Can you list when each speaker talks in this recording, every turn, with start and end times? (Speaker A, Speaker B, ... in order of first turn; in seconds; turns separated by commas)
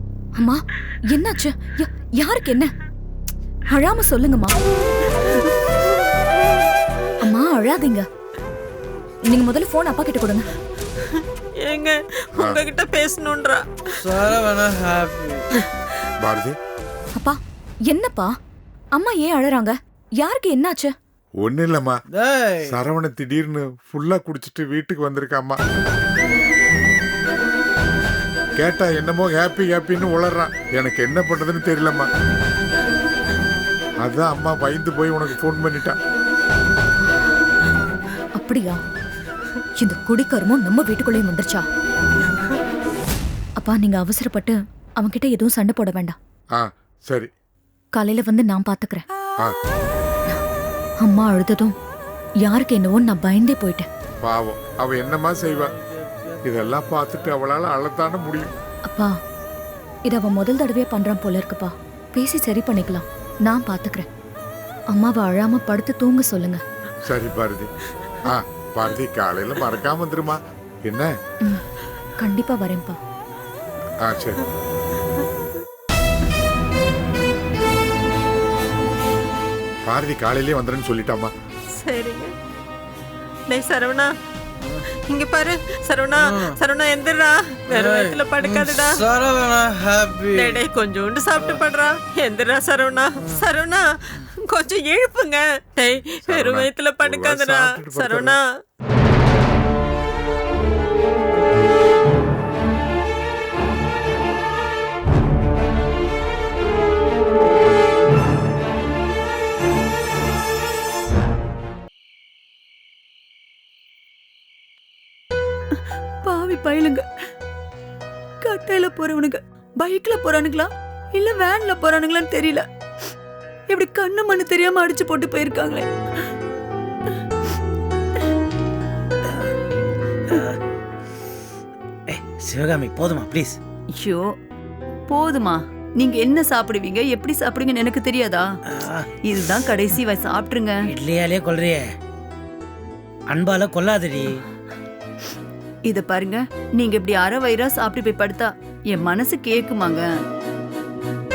Speaker A: 0.4-2.7, Speaker A: 3.7-4.5, Speaker A: 7.2-8.0, Speaker A: 9.3-10.5, Speaker B: 11.1-13.6, Speaker C: 14.0-15.4, Speaker D: 16.2-16.6, Speaker A: 17.9-18.3, Speaker A: 18.9-20.9, Speaker D: 21.4-21.9, Speaker C: 22.1-22.7, Speaker D: 22.7-25.6, Speaker D: 28.6-32.1, Speaker D: 34.0-36.0, Speaker A: 38.4-38.8, Speaker A: 39.8-41.6, Speaker A: 43.6-46.2, Speaker D: 46.5-47.3, Speaker A: 47.9-49.0, Speaker A: 51.0-51.7, Speaker A: 52.4-53.9, Speaker D: 54.2-55.7, Speaker C: 56.0-56.4, Speaker D: 56.4-58.5, Speaker A: 60.1-64.1, Speaker A: 64.9-66.6, Speaker D: 67.0-67.7, Speaker D: 68.3-71.1, Speaker A: 72.2-73.0, Speaker D: 74.0-74.4, Speaker D: 79.8-81.3, Speaker B: 81.8-82.3, Speaker B: 83.5-84.1, Speaker B: 85.1-89.0, Speaker C: 86.2-86.6, Speaker C: 87.8-90.6, Speaker B: 90.3-93.8, Speaker B: 94.5-98.4, Speaker D: 96.2-98.4, Speaker E: 116.2-117.0, Speaker E: 118.4-122.6, Speaker E: 123.7-125.9, Speaker F: 130.3-130.6, Speaker F: 132.1-133.6, Speaker E: 135.1-138.5, Speaker F: 138.8-139.0, Speaker E: 139.2-140.7, Speaker F: 140.9-141.8, Speaker F: 143.3-144.3, Speaker E: 145.9-150.1